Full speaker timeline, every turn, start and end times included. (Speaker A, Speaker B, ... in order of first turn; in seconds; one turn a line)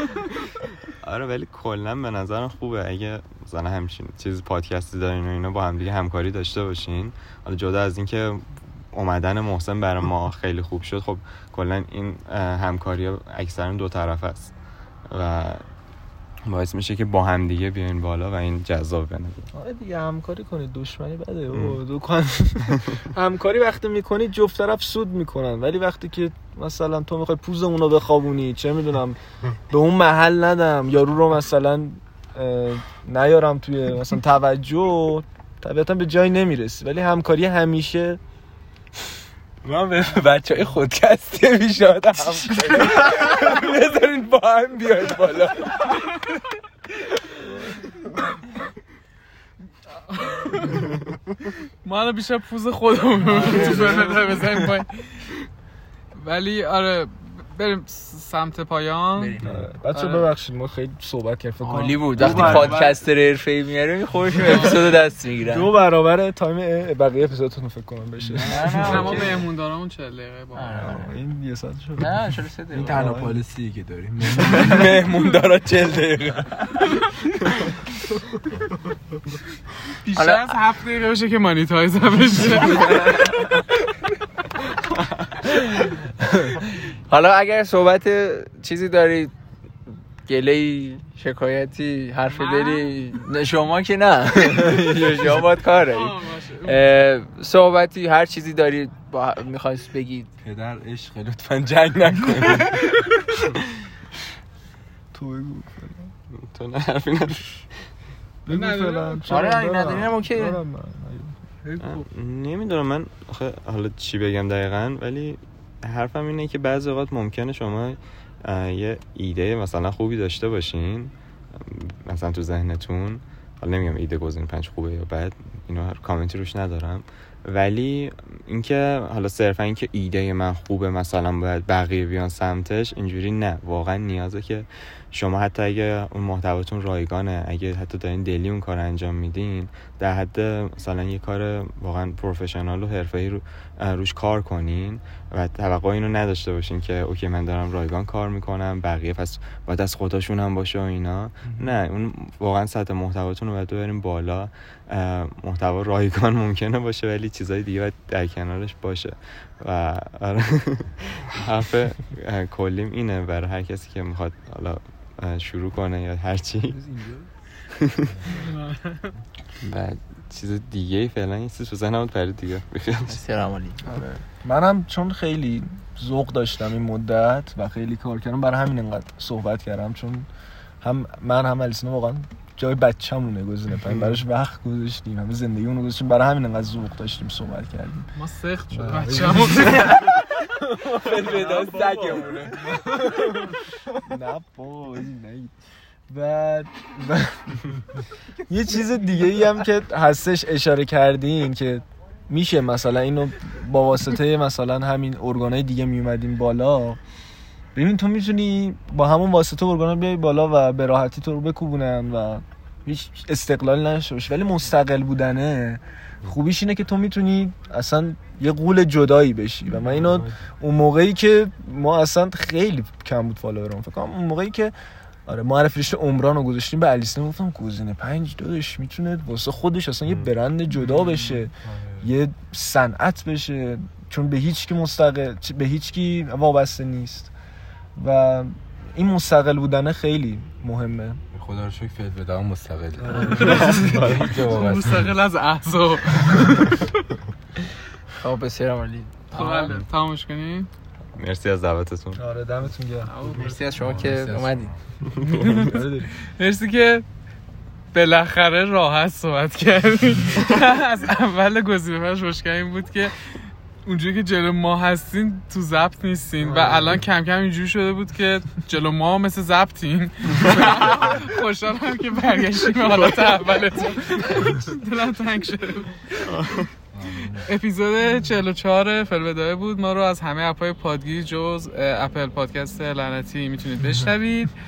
Speaker A: 1.0-14.5
Speaker A: 15.1-15.6
Speaker A: 16.4-19.5
Speaker B: 19.5-29.2
Speaker A: 21.5-21.8
Speaker B: 29.7-38.2
Speaker C: 39.6-46.2
Speaker D: 49.9-55.3
Speaker E: 53.2-54.2
Speaker D: 56.1-59.4
Speaker E: 59.1-59.6
Speaker B: 59.4-62.8
Speaker D: 60.0-60.2
Speaker E: 61.6-65.7
Speaker C: 62.2-63.0
Speaker B: 65.5-69.4
Speaker C: 68.3-68.7
Speaker E: 68.4-69.4
Speaker D: 68.7-71.0
Speaker E: 70.5-71.1
Speaker B: 70.8-72.1
Speaker E: 72.0-73.1
Speaker C: 72.7-77.6
Speaker B: 72.9-73.4
Speaker D: 80.0-83.7
Speaker E: 80.1-80.5
Speaker E: 86.9-89.3
Speaker E: 90.2-100.3
Speaker D: 92.3-93.0
Speaker D: 95.9-96.9
Speaker C: 100.4-103.6
Speaker B: 105.1-106.1
Speaker A: 106.3-107.8
Speaker B: 108.5-111.4
Speaker D: 108.5-109.3
Speaker E: 109.2-110.6
Speaker D: 111.6-112.0
Speaker A: 111.8-166.8
Speaker C: 166.7-167.3
Speaker A: 167.8-168.1
Speaker C: 168.1-168.4
Speaker D: 168.3-169.2
Speaker A: 169.6-173.2
Speaker E: 173.1-174.2
Speaker B: 174.4-180.3
Speaker B: 180.8-188.1
Speaker D: 188.1-190.5
Speaker B: 188.7-190.1
Speaker C: 190.7-192.8
Speaker B: 190.9-195.5
Speaker B: 196.1-197.8
Speaker B: 198.5-207.0
Speaker B: 207.7-224.7
Speaker C: 219.8-220.4
Speaker B: 225.2-237.3
Speaker D: 230.9-231.4
Speaker C: 231.6-232.1
Speaker B: 237.9-241.2
Speaker C: 241.3-245.1
Speaker B: 243.0-244.0
Speaker D: 243.3-243.8
Speaker A: 243.4-244.3
Speaker D: 244.4-246.9
Speaker E: 248.2-249.7
Speaker D: 249.3-250.7
Speaker A: 251.1-252.2
Speaker B: 252.1-253.2
Speaker D: 253.1-253.9
Speaker E: 253.3-254.7
Speaker C: 253.5-254.8
Speaker A: 255.1-255.6
Speaker D: 255.2-257.1
Speaker B: 255.4-256.1
Speaker D: 257.9-276.4
Speaker B: 266.5-266.9
Speaker A: 276.2-276.7
Speaker C: 276.9-277.5
Speaker D: 277.4-284.5